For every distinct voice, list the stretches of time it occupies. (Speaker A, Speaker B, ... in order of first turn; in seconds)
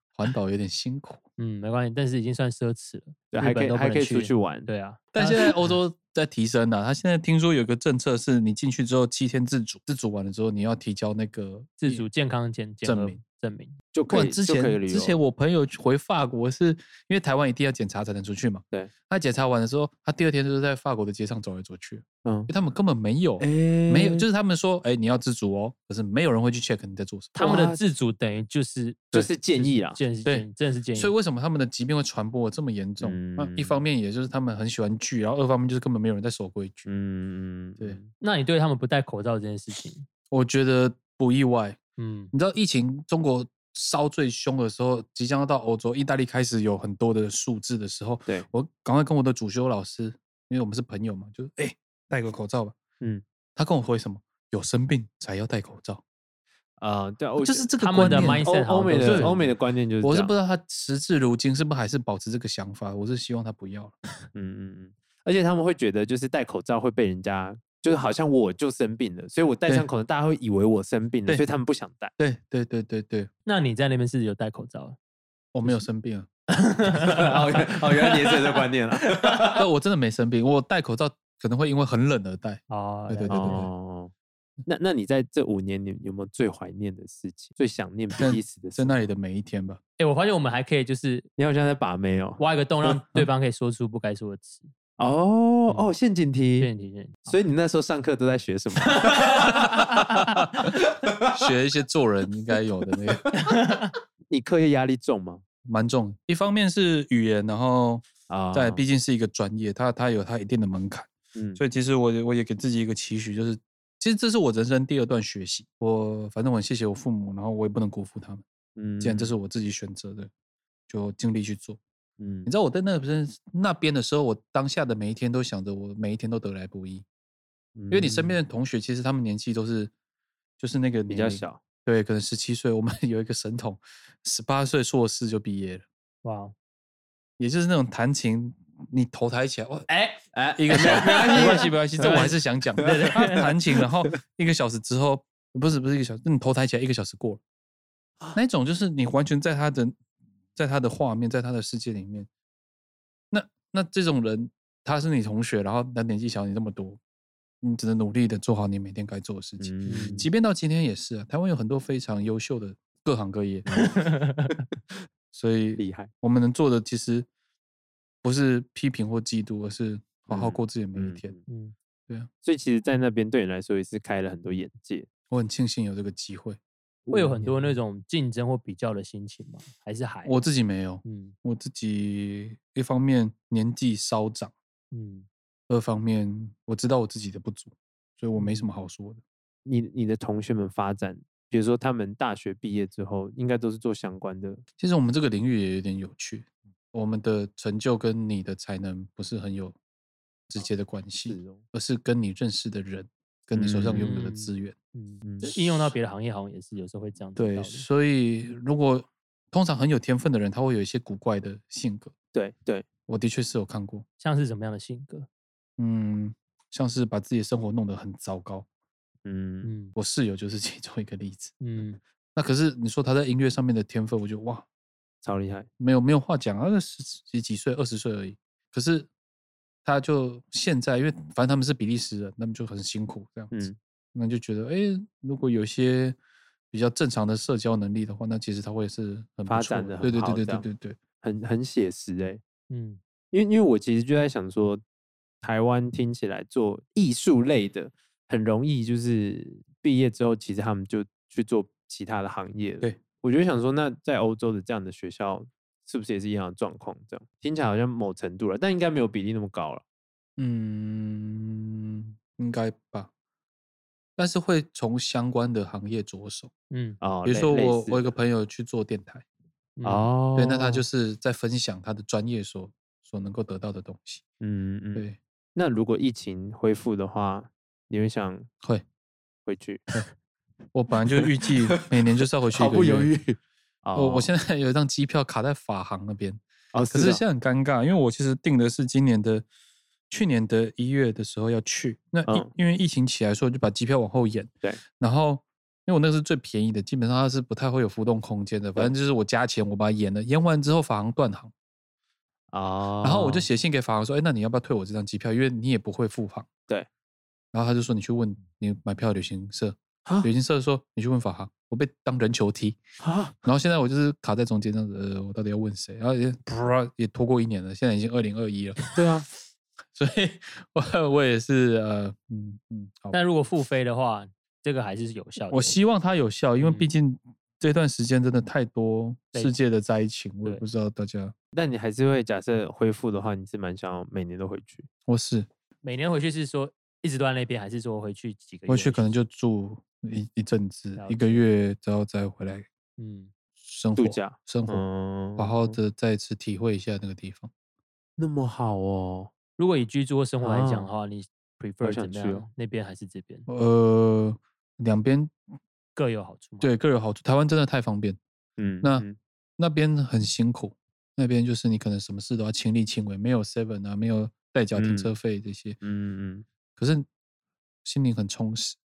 Speaker A: 0.1-1.2, 5.1-12.1, 12.8-13.2, 14.1-27.4, 30.2-36.9, 40.3-41.8, 42.3-52.8, 53.5-56.0, 57.4-58.5, 59.0-64.0, 72.2-73.3, 75.5-76.3, 79.6-83.7, 88.2-89.8, 101.3-103.2, 105.6-118.4, 119.0-120.3, 120.9-121.8, 122.5-127.0, 127.9-129.9, 130.6-135.8, 137.4-139.9, 140.6-147.4, 148.3-149.9, 150.6-152.3, 153.3-157.0, 157.6-163.6, 165.3-167.3, 168.2-171.3, 175.3-176.6, 180.2-184.5, 185.7-189.2, 194.8-199.8, 200.5-204.7, 207.3-212.1, 213.1-214.0, 215.8-218.7, 219.9-221.5, 222.3-224.6, 225.8-229.1, 229.8-236.2, 236.7-241.0, 260.4-263.1, 264.2-266.5, 267.2-269.2, 270.4-274.2, 280.7-283.1, 283.9-289.4, 290.1-301.5, 303.0-306.5, 307.5-312.8, 313.4-318.8, 319.9-323.2, 325.5-331.3, 335.1-335.5, 338.7-342.7, 343.6-344.8, 345.4-347.5, 353.5-355.4, 356.6-358.2, 359.6-365.8, 366.8-367.1, 367.8-368.8
Speaker B: 1.4-5.7, 11.8-13.8, 27.4-31.1, 38.2-40.1, 42.0-42.3, 57.8-59.4, 73.5-75.0, 76.5-78.6, 79.1-79.5, 82.7-83.7, 90.0-91.3, 92.4-94.7, 95.7-95.9, 96.6-97.4, 99.0-100.4, 103.4-103.9, 136.2-136.5, 139.9-143.5, 159.9-160.3, 163.8-164.6, 171.5-171.7, 177.1-180.3, 181.0-181.3, 184.9-185.3, 188.3-188.8, 203.9-207.8, 214.2-215.3, 219.6-219.9, 221.6-222.0, 242.7-243.0, 266.7-267.0, 269.8-270.1, 323.1-325.8, 326.6-326.9, 335.8-339.1, 340.9-341.4, 343.0-343.3, 349.6-353.5, 355.9-356.7
Speaker C: 3.3-4.7, 13.9-15.2, 22.2-22.5, 23.4-24.2, 27.4-27.8, 29.1-30.0, 33.0-33.8, 36.9-38.1, 56.8-60.3, 64.3-72.1, 77.0-79.6, 83.3-84.1, 84.7-89.0, 91.4-92.9, 95.0-96.7, 97.3-99.7, 101.0-101.5, 102.9-103.2, 104.3-105.4, 108.3-108.8, 111.3-111.6, 118.8-119.3, 122.2-122.5, 127.8-128.4, 131.1-131.6, 140.3-143.2, 143.8-144.1, 159.6-160.3, 165.8-166.1, 170.3-171.4, 172.4-175.1, 177.1-177.8, 189.6-194.6, 201.2-201.6, 203.5-204.2, 205.2-205.6, 212.3-212.8, 219.2-219.7, 225.2-225.7, 233.5-233.8, 239.5-240.7, 241.2-242.4, 243.3-244.8, 245.4-259.8, 267.0-268.1, 269.8-270.8, 274.4-278.5, 279.4-280.0, 281.1-284.3, 286.7-287.2, 292.3-292.5, 302.5-303.5, 310.0-310.3, 313.0-313.3, 318.9-319.3, 331.5-334.9, 343.9-345.7, 348.2-349.3, 350.4-350.9, 351.8-352.4, 358.6-359.2, 364.8-365.1, 365.8-366.4